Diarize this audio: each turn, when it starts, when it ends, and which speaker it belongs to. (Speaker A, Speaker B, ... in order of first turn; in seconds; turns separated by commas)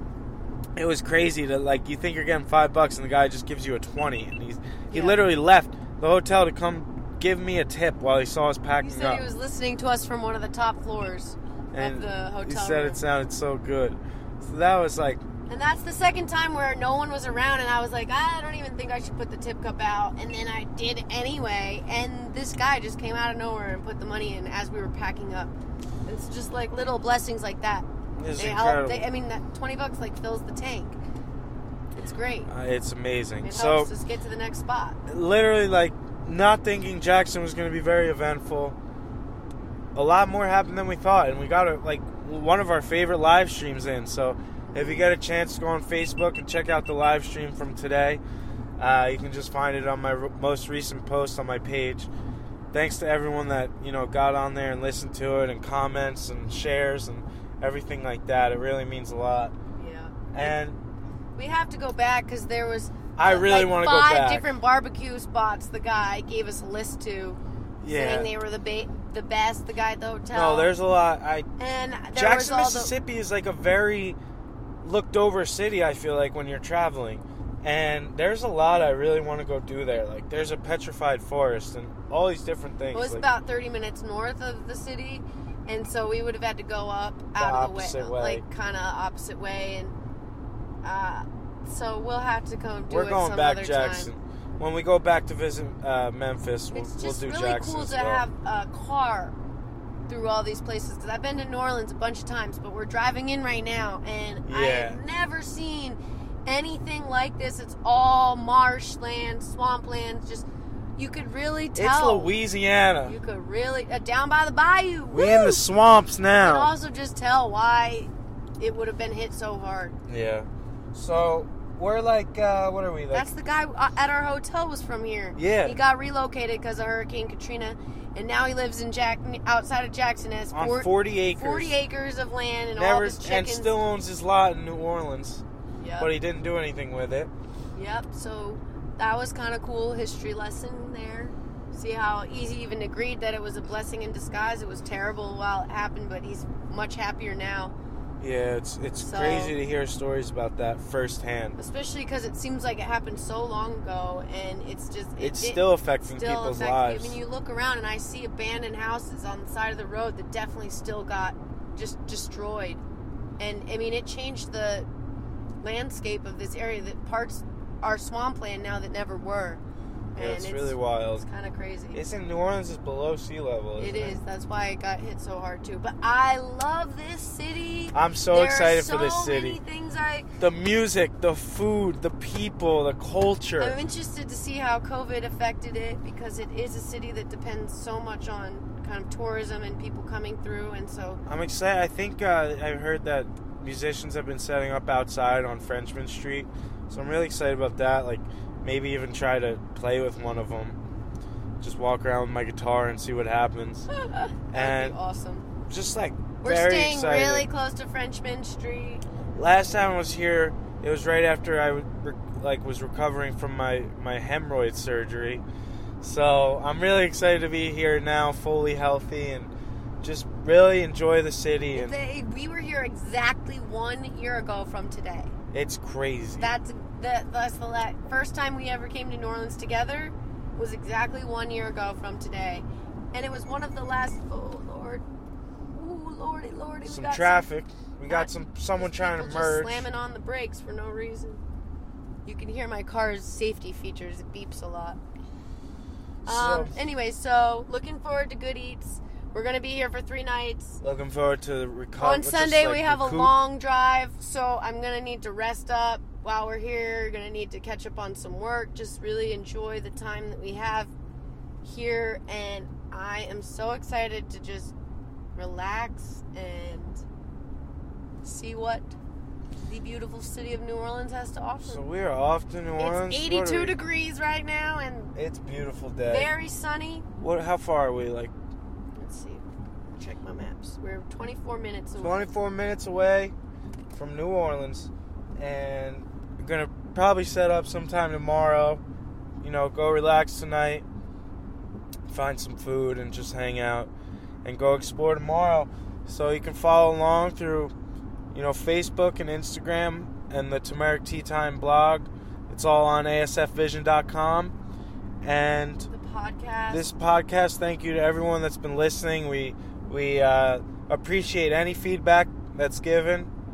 Speaker A: 0.8-9.2, Speaker B: 4.9-5.2, Speaker B: 8.8-13.0, Speaker A: 11.7-15.2, Speaker B: 15.5-25.5, Speaker B: 26.1-31.0, Speaker A: 28.2-29.1, Speaker B: 32.0-32.5, Speaker A: 32.5-33.9, Speaker B: 33.4-35.0, Speaker A: 35.1-38.8, Speaker A: 40.0-48.2, Speaker B: 44.7-45.1, Speaker A: 48.8-52.1, Speaker A: 52.7-59.5, Speaker B: 59.8-60.6, Speaker A: 60.3-60.8, Speaker B: 61.4-70.7, Speaker A: 63.2-64.5, Speaker A: 67.8-68.3, Speaker A: 70.3-71.5, Speaker B: 71.6-73.0, Speaker A: 72.1-74.2, Speaker A: 74.8-83.2, Speaker B: 82.9-90.0, Speaker A: 87.4-88.4, Speaker B: 90.8-94.1, Speaker A: 92.9-98.3, Speaker B: 96.7-99.4, Speaker B: 100.1-112.4, Speaker A: 104.5-105.0, Speaker A: 111.8-113.2, Speaker B: 113.0-115.6, Speaker A: 115.1-116.7, Speaker B: 116.4-120.0, Speaker A: 120.1-123.3, Speaker B: 123.1-133.8, Speaker A: 125.4-125.8, Speaker A: 130.5-131.8, Speaker A: 132.8-135.4, Speaker B: 135.8-136.1, Speaker A: 136.0-137.3, Speaker B: 137.8-147.8, Speaker A: 148.2-151.6, Speaker B: 149.0-149.6, Speaker B: 151.6-162.8, Speaker A: 155.2-157.2, Speaker B: 163.4-164.9, Speaker B: 165.6-169.6, Speaker B: 170.2-172.0, Speaker A: 170.2-171.3, Speaker A: 171.9-174.2, Speaker B: 173.8-180.3, Speaker A: 177.9-179.6, Speaker A: 180.4-183.8, Speaker B: 183.6-191.2, Speaker A: 191.3-200.8, Speaker A: 201.6-203.9, Speaker B: 204.0-205.5, Speaker A: 204.5-205.0, Speaker A: 205.7-207.5, Speaker B: 206.4-209.0, Speaker A: 209.3-215.4, Speaker A: 216.0-219.5, Speaker A: 220.0-222.0, Speaker B: 221.7-225.3, Speaker A: 225.5-226.5, Speaker B: 226.4-235.1, Speaker B: 235.7-237.5, Speaker A: 236.8-239.9, Speaker B: 238.1-241.4, Speaker B: 242.2-245.0, Speaker A: 246.2-246.8, Speaker B: 246.2-250.8, Speaker A: 250.8-253.3, Speaker B: 252.0-260.9, Speaker B: 261.6-264.7, Speaker B: 265.4-267.0, Speaker B: 268.2-268.9, Speaker B: 269.7-271.8, Speaker A: 271.6-273.8, Speaker B: 272.8-275.1, Speaker A: 275.1-276.3, Speaker B: 276.0-277.1, Speaker A: 277.2-278.3, Speaker B: 279.0-282.3, Speaker A: 282.0-283.4, Speaker A: 283.9-288.8, Speaker A: 289.4-290.9, Speaker A: 292.1-293.9, Speaker A: 294.4-297.7, Speaker A: 298.3-304.6, Speaker A: 305.2-305.9, Speaker B: 305.8-306.9, Speaker A: 306.7-313.3